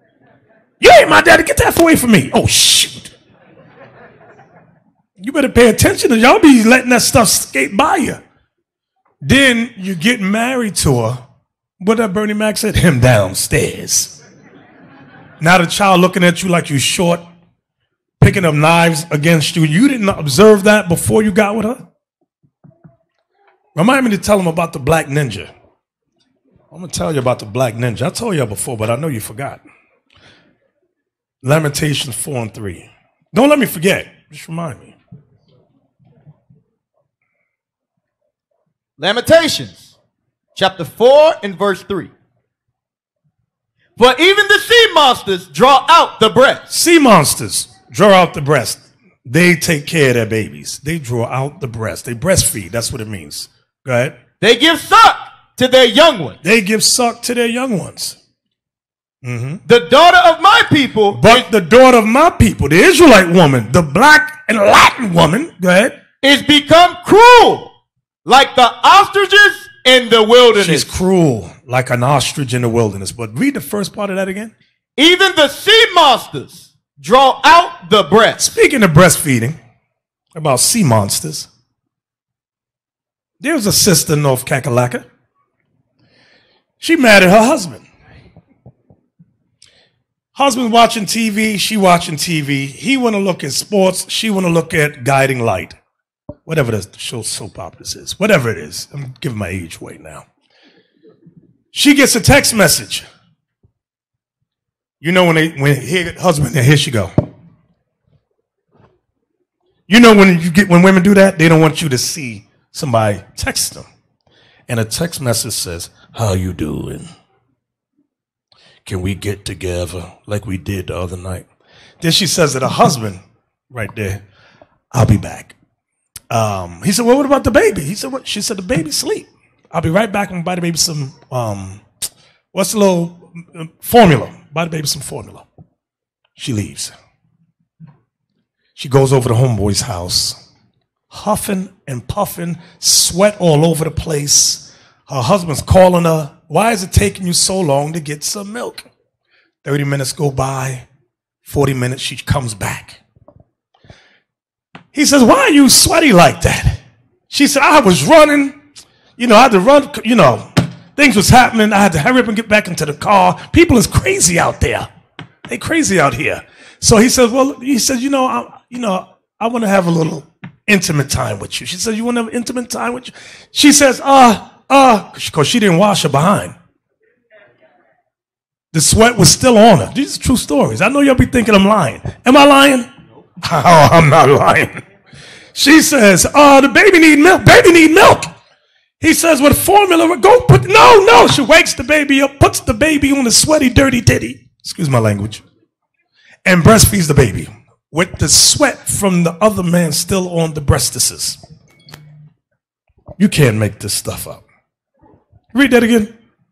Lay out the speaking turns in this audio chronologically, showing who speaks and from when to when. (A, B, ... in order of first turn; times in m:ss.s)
0:00.8-0:03.1 A
0:05.2-0:08.2 A
0:09.2-0:11.2 A
0:11.8-0:14.2 A
0:15.4-0:17.2 A
0:18.2-0:21.9 A
0:23.8-0:25.5 A
0:26.7-0:29.6 A
0:31.4-0:35.0 A
0:39.0-0:39.9 B
0:40.6-0:42.1 B
0:44.0-0:46.6 B
0:46.7-0:54.2 A
0:54.4-0:56.4 B
0:56.4-0:58.2 A
0:59.2-0:59.6 A
0:59.7-1:01.5 B
1:01.1-1:06.0 A
1:06.2-1:07.7 B
1:08.2-1:10.9 B
1:10.6-1:14.5 A
1:15.0-1:18.5 B
1:18.4-1:19.6 A
1:20.4-1:21.5 A
1:23.4-1:25.1 A
1:26.8-1:27.8 A
1:30.4-1:35.8 A
1:36.5-1:40.3 A
1:41.7-1:43.1 A
1:45.0-1:47.1 A
1:49.9-1:53.9 A
1:54.7-1:57.1 A
1:58.8-2:01.5 A
2:02.0-2:04.2 A
2:04.9-2:05.6 A
2:06.3-2:11.8 A
2:12.5-2:15.5 A
2:16.4-2:16.9 A
2:18.8-2:20.4 A
2:21.1-2:28.9 A
2:29.6-2:30.9 A
2:31.4-2:33.0 A
2:34.9-2:38.6 A
2:39.2-2:44.9 A
2:45.5-2:56.6 A
2:58.7-3:02.9 A
3:03.4-3:04.8 A
3:05.5-3:08.3 A
3:09.0-3:15.4 A
3:16.4-3:21.4 A
3:23.2-3:24.4 A
3:25.5-3:26.1 A